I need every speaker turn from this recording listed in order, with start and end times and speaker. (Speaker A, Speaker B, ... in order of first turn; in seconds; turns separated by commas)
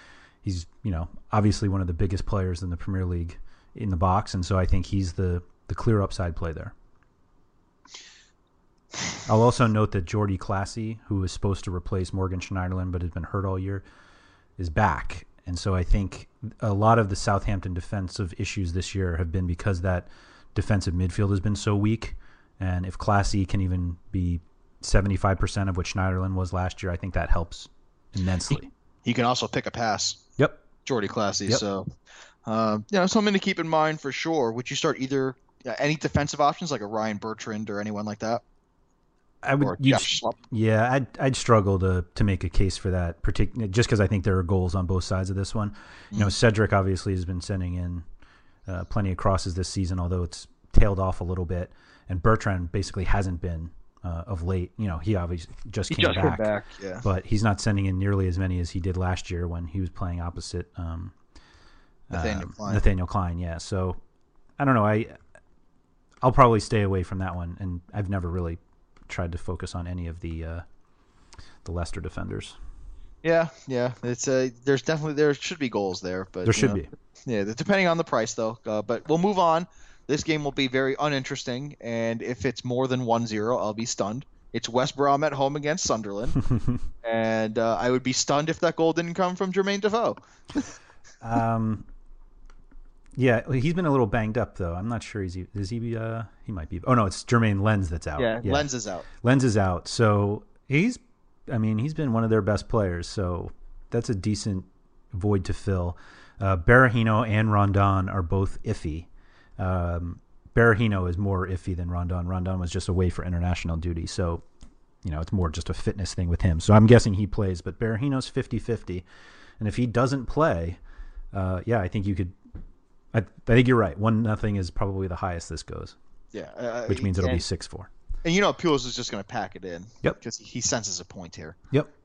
Speaker A: 0.4-6.7, Speaker A: 9.2-13.8, Speaker A: 14.6-28.7, Speaker B: 29.0-30.2, Speaker A: 30.4-30.6, Speaker B: 30.8-31.9, Speaker B: 32.5-38.4, Speaker A: 39.4-48.0, Speaker B: 39.6-40.4, Speaker A: 48.7-56.5, Speaker B: 55.9-57.0, Speaker A: 57.0-61.1, Speaker A: 62.1-64.0, Speaker B: 62.1-62.8, Speaker A: 64.6-65.2, Speaker A: 66.2-70.6, Speaker A: 71.6-72.6, Speaker B: 73.2-86.4, Speaker A: 76.5-76.9, Speaker A: 86.5-86.8, Speaker B: 87.0-90.2, Speaker A: 91.2-91.9, Speaker A: 93.2-98.7, Speaker B: 98.2-99.0, Speaker A: 99.2-114.4, Speaker A: 115.0-119.0, Speaker A: 119.6-120.8, Speaker A: 121.3-122.3, Speaker A: 123.1-126.0, Speaker B: 126.3-127.4, Speaker A: 126.9-127.9, Speaker B: 128.2-131.6